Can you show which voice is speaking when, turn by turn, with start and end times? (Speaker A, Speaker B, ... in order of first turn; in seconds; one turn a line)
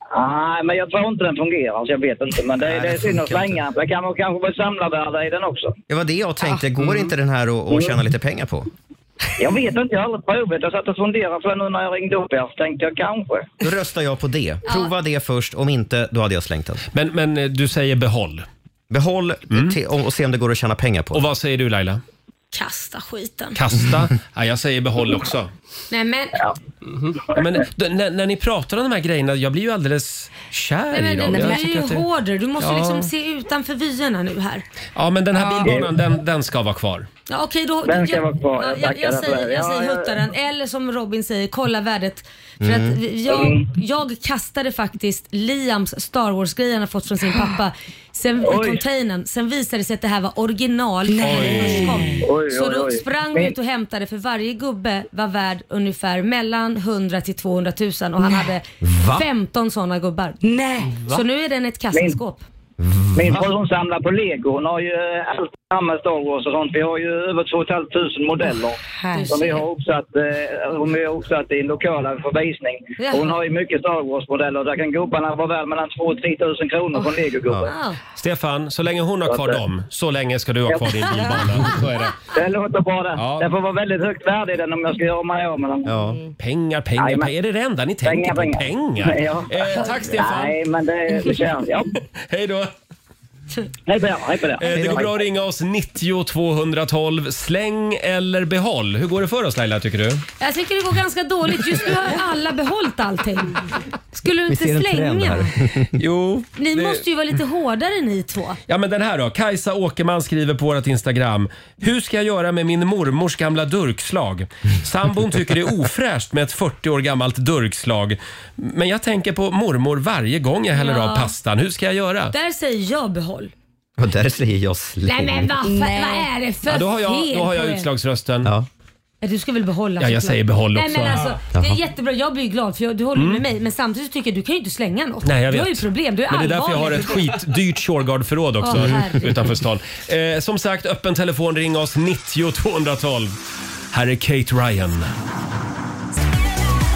Speaker A: 0.1-5.8
Speaker B: 5.9-8.7
Speaker A: 9.4-13.6
Speaker B: 13.6-16.8
Speaker C: 16.9-18.5
Speaker B: 18.9-21.3
Speaker C: 19.5-19.8
Speaker C: 21.1-22.0
Speaker D: 22.5-23.6
Speaker C: 23.6-25.5
Speaker D: 25.9-26.4
Speaker C: 27.3-32.0
Speaker D: 30.9-34.6
Speaker E: 31.3-31.6
Speaker C: 32.6-33.1
Speaker C: 35.0-37.1
Speaker E: 35.4-35.7
Speaker A: 35.6-35.9
Speaker D: 37.3-60.4
Speaker A: 37.8-40.2
Speaker B: 42.6-43.0
Speaker A: 43.3-43.7
Speaker A: 48.4-48.8
Speaker E: 51.1-52.2
Speaker C: 51.2-52.0
Speaker A: 52.2-53.5
Speaker B: 58.8-59.2
Speaker E: 60.4-61.1
Speaker D: 61.0-62.4
Speaker A: 61.9-62.2
Speaker B: 62.8-63.4
Speaker A: 63.1-77.8
Speaker E: 69.0-69.4
Speaker D: 69.1-69.6
Speaker D: 73.0-73.3
Speaker D: 77.7-78.0
Speaker C: 78.2-82.1
Speaker A: 79.3-79.6
Speaker A: 80.7-81.0
Speaker A: 82.3-85.9
Speaker C: 83.2-83.5
Speaker B: 85.9-86.2
Speaker C: 86.4-90.6
Speaker A: 87.0-87.3
Speaker A: 88.0-91.9
Speaker C: 92.3-92.7
Speaker A: 93.9-95.1
Speaker C: 94.6-100.2
Speaker B: 94.7-95.1
Speaker D: 100.4-103.6
Speaker D: 104.1-105.5
Speaker B: 104.5-106.0
Speaker C: 106.0-107.0
Speaker D: 106.6-108.6
Speaker C: 108.7-122.3
Speaker D: 120.8-121.3
Speaker D: 122.3-123.5
Speaker B: 124.0-125.6
Speaker D: 125.1-127.9
Speaker E: 125.6-126.3
Speaker C: 126.7-128.5
Speaker D: 129.2-137.2
Speaker C: 130.0-131.3
Speaker B: 131.5-131.8
Speaker C: 133.2-133.4
Speaker C: 135.2-143.4
Speaker D: 138.6-139.3
Speaker B: 138.7-139.0
Speaker C: 143.9-145.1